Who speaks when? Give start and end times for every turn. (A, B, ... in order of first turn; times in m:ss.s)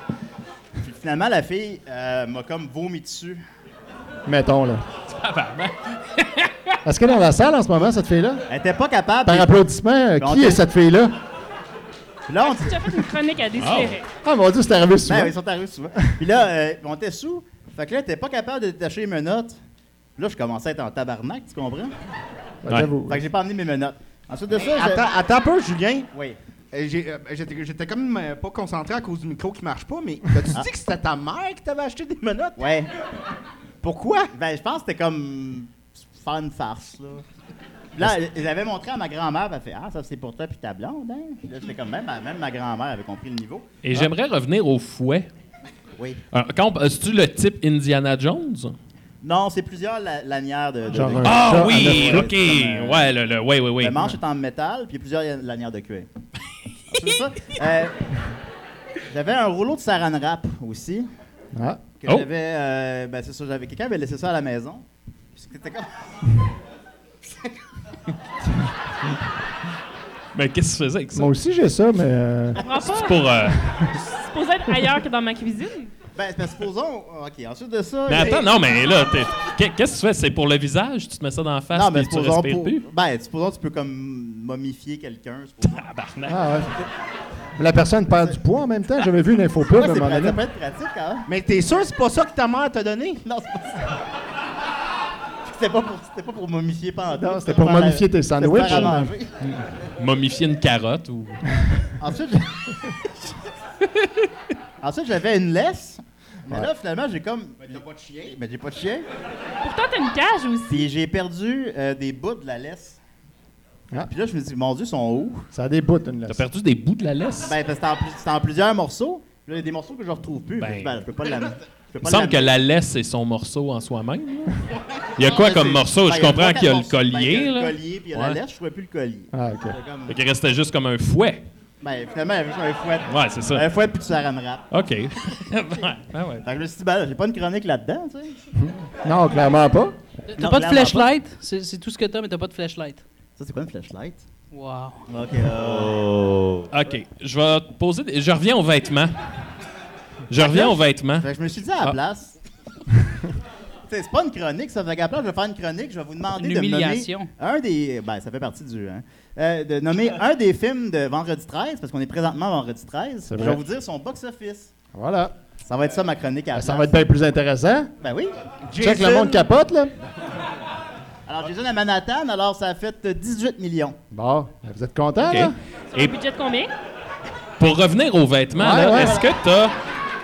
0:00.8-0:03.4 A
0:04.2-0:04.8 B
0:05.1-0:06.7 C
0:06.8-0:08.4 B
0:08.5-0:09.6 A
0:09.2-0:11.1 B
0:10.2-0:10.6 A
0:12.3-0:13.0 A
0:12.4-0:14.0 D
0:13.6-0:13.9 C
0:14.2-0:15.3 B
0:15.0-0:19.6 A
0:20.2-0:21.9 A
0:22.6-0:23.3 B
0:23.0-0:25.1 A
0:24.5-0:26.1 E
0:26.1-0:26.4 A
0:26.7-0:32.6 E
0:32.6-0:32.9 A
0:33.8-0:34.3 E
0:34.3-0:37.2 A
0:38.0-0:43.7 A
0:43.8-0:45.3 C
0:46.3-0:48.8 C
0:49.2-0:53.1 A
0:50.9-0:52.4 B
0:51.2-0:54.1 C
0:53.8-0:56.1 A
0:56.9-0:58.2 A
0:59.1-1:01.1 A
1:01.5-1:01.8 B
1:02.0-1:06.4 A
1:10.3-1:11.3 C
1:11.1-1:12.6 B
1:12.5-1:15.9 D
1:12.7-1:13.6 C
1:16.2-1:18.7 A
1:18.1-1:22.8 C
1:21.7-1:25.9 A
1:25.6-1:26.4 C
1:26.3-1:26.7 B
1:27.6-1:30.4 B
1:29.7-1:31.2 A
1:31.3-1:33.2 E
1:33.2-1:33.9 A
1:35.4-1:39.3 A
1:37.2-1:39.6 B
1:40.0-1:41.4 C
1:42.0-1:42.7 A
1:44.8-1:49.1 A
1:47.6-1:48.4 E
1:49.6-1:50.8 D
1:50.7-1:53.0 A
1:54.0-1:55.5 A
1:55.5-1:56.5 B
1:56.3-1:57.5 C
1:57.4-2:02.6 A
2:00.6-2:00.9 C
2:02.0-2:04.6 C
2:05.2-2:08.4 C
2:05.2-2:10.2 A
2:09.3-2:09.8 B
2:10.1-2:11.4 C
2:11.8-2:14.7 A
2:13.1-2:13.6 C
2:14.7-2:16.4 C
2:16.4-2:18.4 A
2:18.5-2:20.0 B
2:20.3-2:23.0 F
2:20.3-2:21.1 A
2:23.4-2:24.2 A
2:24.5-2:25.0 F
2:25.1-2:26.7 A
2:26.7-2:29.1 C
2:30.3-2:31.3 C
2:30.4-2:32.4 A
2:33.9-2:44.7 A
2:36.3-2:37.3 F
2:43.3-2:43.6 B
2:44.9-2:45.3 B
2:45.6-2:47.0 A
2:46.5-2:47.9 B
2:48.0-2:48.4 A
2:48.7-2:49.4 E
2:48.8-2:49.9 B
2:51.3-2:54.0 A
2:54.1-2:55.5 B
2:55.2-2:56.1 C
2:55.9-2:56.7 D
2:57.6-2:59.7 C
2:58.6-2:59.2 B
2:58.8-2:59.3 A